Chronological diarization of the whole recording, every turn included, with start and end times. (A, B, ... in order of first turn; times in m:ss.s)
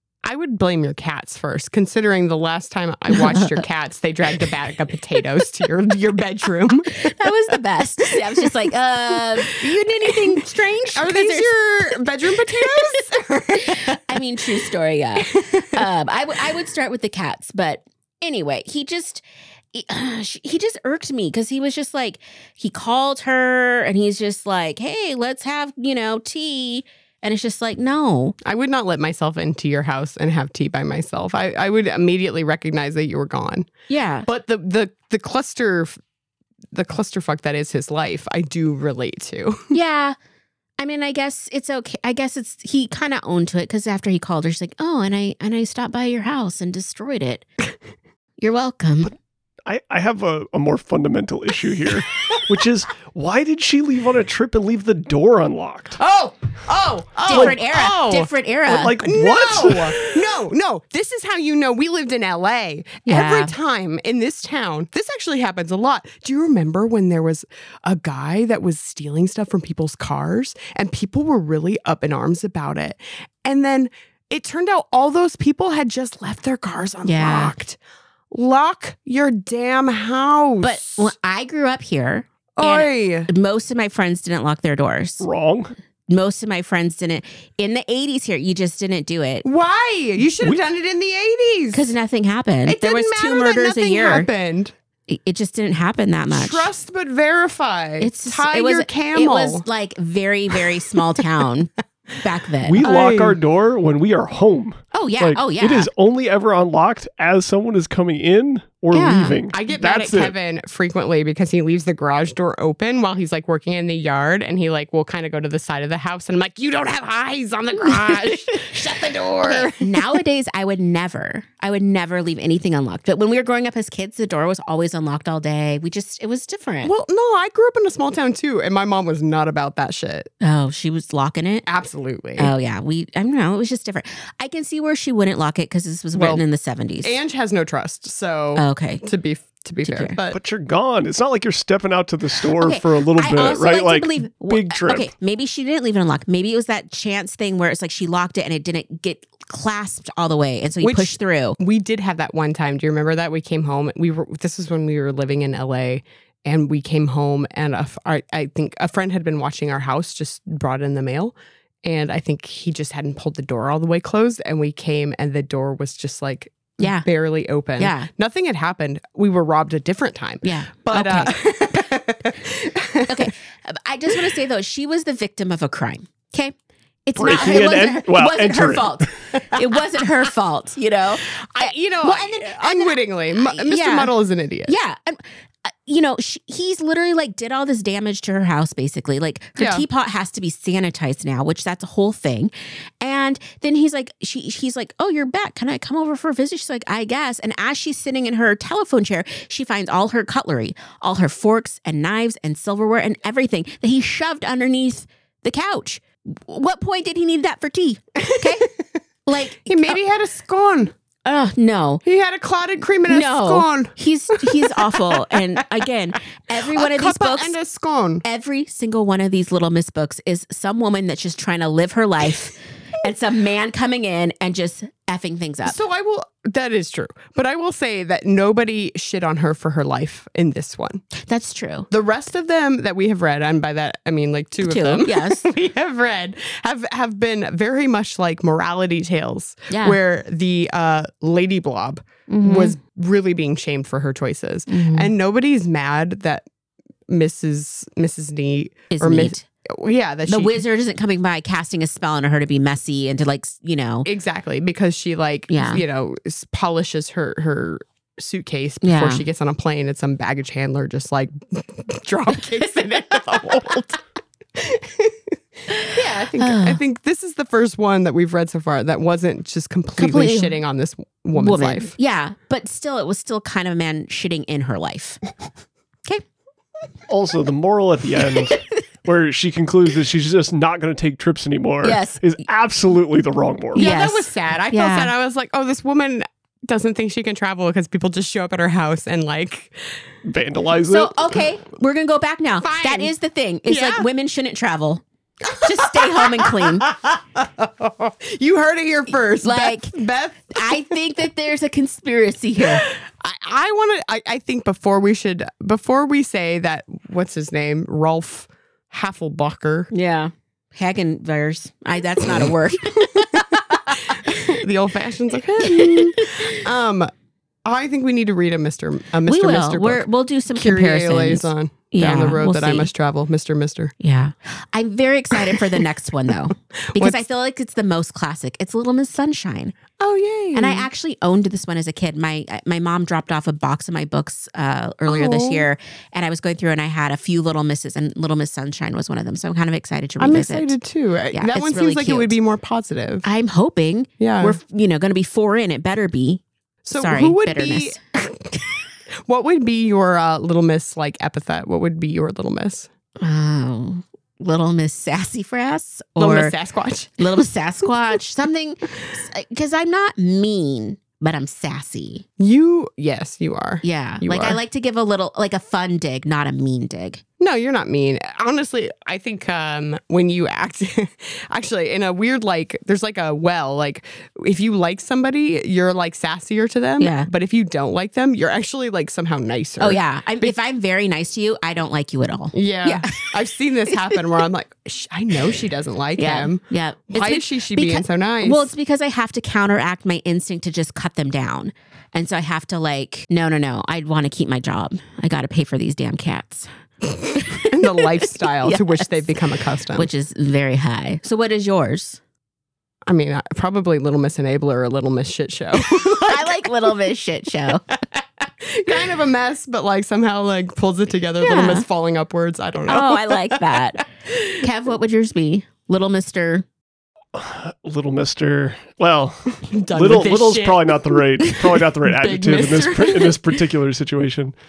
0:00.2-0:07.1 A
0:03.1-0:03.6 B
0:06.9-0:12.0 B
0:08.1-0:08.5 A
0:09.2-0:10.3 A
0:10.9-0:14.2 A
0:12.6-0:13.0 B
0:13.5-0:28.4 B
0:15.2-0:15.9 A
0:28.4-0:33.7 A
0:33.9-0:34.3 B
0:34.3-0:35.9 A
0:36.7-0:39.7 A
0:39.7-0:40.2 B
0:40.8-0:47.5 B
0:48.4-0:49.1 B
0:49.7-0:56.0 C
0:56.0-0:58.3 A
0:57.3-0:59.0 B
0:57.3-0:57.6 C
0:58.7-1:00.3 C
0:59.0-1:17.8 A
1:03.1-1:03.5 B
1:17.0-1:17.5 B
1:18.3-1:21.1 A
1:20.6-1:25.3 B
1:22.6-1:23.3 A
1:25.2-1:25.7 C
1:26.1-1:29.4 B
1:29.4-1:31.9 A
1:31.7-1:34.3 B
1:32.7-1:34.7 A
1:35.1-1:36.7 B
1:36.3-1:39.6 A
1:38.0-1:42.9 B
1:42.6-1:50.4 C
1:42.8-1:43.4 A
1:44.9-1:45.9 B
1:48.9-1:49.4 B
1:49.5-2:00.0 A
1:59.4-2:06.9 B
2:06.8-2:10.3 A
2:10.4-2:11.6 B
2:11.7-2:12.5 A
2:12.4-2:17.2 B
2:16.1-2:16.4 A
2:17.0-2:20.4 A
2:18.6-2:19.0 B
2:19.8-2:20.2 B
2:20.3-2:25.1 C
2:22.6-2:31.6 B
2:30.8-2:53.3 A
2:46.8-2:47.1 B
2:47.8-2:48.1 B
2:50.4-2:51.4 B
2:53.1-2:56.5 B
2:57.1-3:04.1 B
2:57.2-2:59.2 C
3:01.5-3:04.7 A
3:04.7-3:28.7 B
3:09.6-3:09.9 A
3:28.2-3:28.7 A
3:29.2-3:30.0 B
3:29.6-3:30.9 A
3:31.2-3:32.0 B
3:32.0-3:35.6 A
3:33.1-3:37.6 B
3:36.5-3:38.2 A
3:38.2-3:45.8 B
3:45.6-3:51.0 A
3:51.2-3:51.9 B
3:51.9-4:06.5 A
3:54.6-3:55.5 B
3:59.7-4:00.0 B
4:02.3-4:02.8 B
4:04.7-4:05.1 B
4:07.1-4:10.6 A
4:08.9-4:09.4 B
4:10.3-4:14.1 B
4:14.0-4:24.0 A
4:15.5-4:15.8 B
4:18.8-4:19.2 B
4:24.5-4:25.4 A
4:25.7-4:26.8 B
4:25.9-4:31.9 A
4:30.0-4:30.6 B
4:31.4-4:35.2 B
4:37.1-4:43.9 C
4:41.8-4:42.2 B
4:43.7-4:45.1 B
4:43.8-4:50.0 A
4:50.2-4:51.4 C
4:50.9-4:56.9 B
4:52.6-4:53.1 A
4:53.7-4:54.1 A
4:55.4-5:01.0 A
4:59.4-4:59.9 B
5:00.5-5:02.8 B
5:02.6-5:09.9 A
5:09.9-5:14.5 B
5:14.1-5:17.1 A
5:15.6-5:16.6 B
5:17.6-5:24.0 A
5:19.3-5:22.9 B
5:24.0-5:29.8 B
5:25.4-5:25.8 A
5:26.9-5:27.2 A
5:30.0-5:30.9 A
5:30.5-5:40.8 B
5:35.1-5:35.7 A
5:40.2-5:43.2 A
5:41.3-5:42.4 B
5:43.2-5:46.4 B
5:44.2-5:44.6 A
5:46.8-5:48.5 A
5:46.9-5:48.0 B
5:49.3-5:52.9 A
5:53.2-5:56.6 B
5:56.2-5:57.2 A
5:57.2-6:02.2 B
6:02.4-6:04.6 A
6:03.8-6:07.2 B
6:07.4-6:20.6 A
6:17.0-6:17.3 B
6:19.8-6:23.3 B
6:22.5-6:28.7 A
6:23.9-6:24.2 B
6:26.2-6:36.7 B
6:37.3-6:39.2 B
6:37.4-6:40.1 A
6:39.9-6:42.2 B
6:43.1-6:46.9 A
6:45.8-6:47.8 B
6:48.1-6:54.4 A
6:51.4-6:51.9 B
6:52.9-6:56.6 B
6:57.4-7:04.5 C
6:59.7-7:03.5 A